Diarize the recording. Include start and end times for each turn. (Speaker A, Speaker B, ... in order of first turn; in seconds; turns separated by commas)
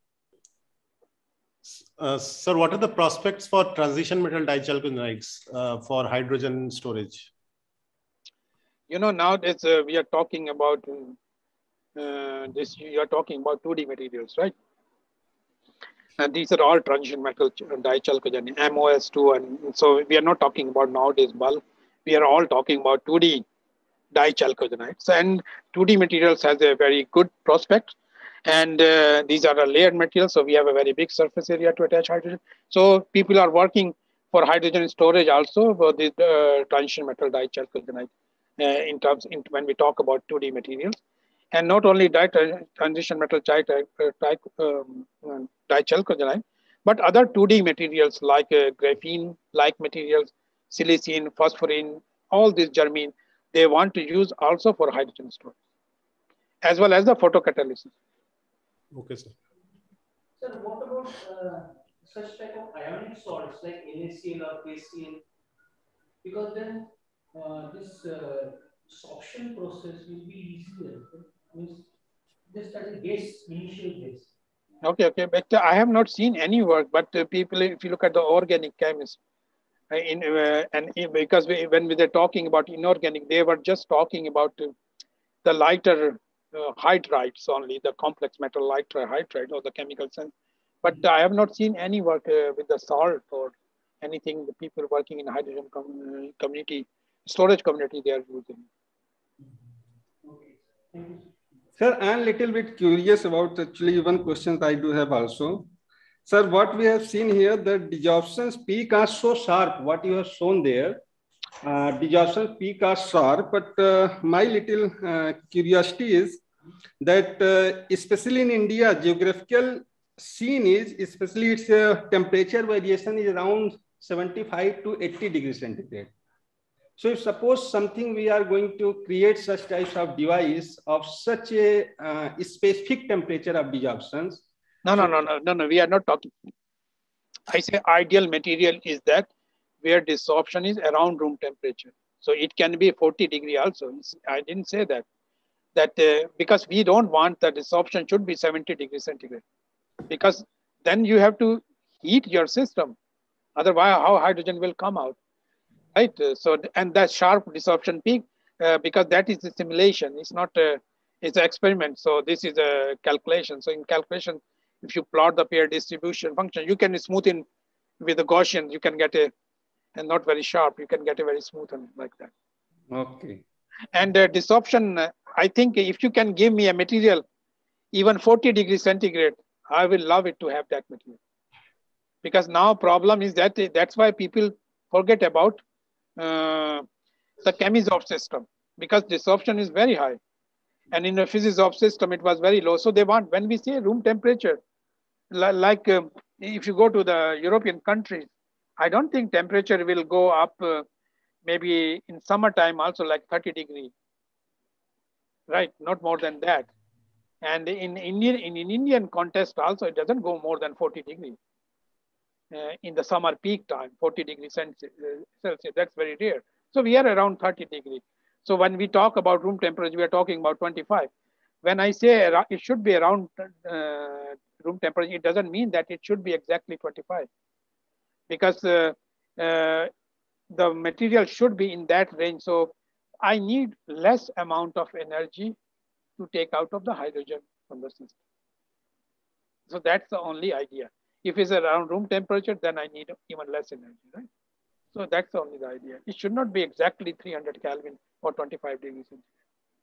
Speaker A: 1.6-7.3, Speaker B: 8.9-11.2, Speaker B: 12.0-14.5, Speaker B: 16.2-23.4, Speaker B: 24.1-41.0, Speaker B: 41.5-55.6, Speaker B: 56.6-57.9, Speaker A: 58.9-59.3, Speaker C: 60.4-65.2, Speaker C: 66.2-71.8, Speaker C: 72.5-74.3, Speaker B: 74.8-79.2, Speaker B: 79.9-84.7, Speaker B: 85.4-98.7, Speaker C: 100.2-101.2, Speaker D: 101.8-105.7, Speaker D: 106.3-111.0, Speaker D: 111.6-116.4, Speaker D: 117.0-126.1, Speaker D: 127.0-134.4, Speaker B: 134.8-136.3, Speaker B: 137.5-139.3, Speaker B: 139.8-145.1, Speaker B: 145.8-149.4, Speaker B: 150.1-152.9, Speaker B: 153.6-155.2, Speaker B: 155.9-167.4, Speaker B: 168.0-169.3, Speaker B: 170.0-172.3, Speaker D: 172.9-173.4, Speaker B: 173.9-177.2, Speaker B: 177.9-181.2, Speaker B: 182.2-185.6, Speaker B: 186.2-186.9, Speaker B: 187.4-190.2, Speaker B: 190.9-194.6, Speaker B: 195.3-200.8, Speaker B: 201.4-203.9, Speaker B: 205.5-206.7, Speaker B: 207.4-211.4, Speaker B: 212.5-221.1, Speaker B: 221.6-227.3, Speaker B: 228.3-229.9, Speaker B: 230.5-235.6, Speaker B: 236.2-238.2, Speaker B: 239.7-244.3, Speaker B: 244.9-249.3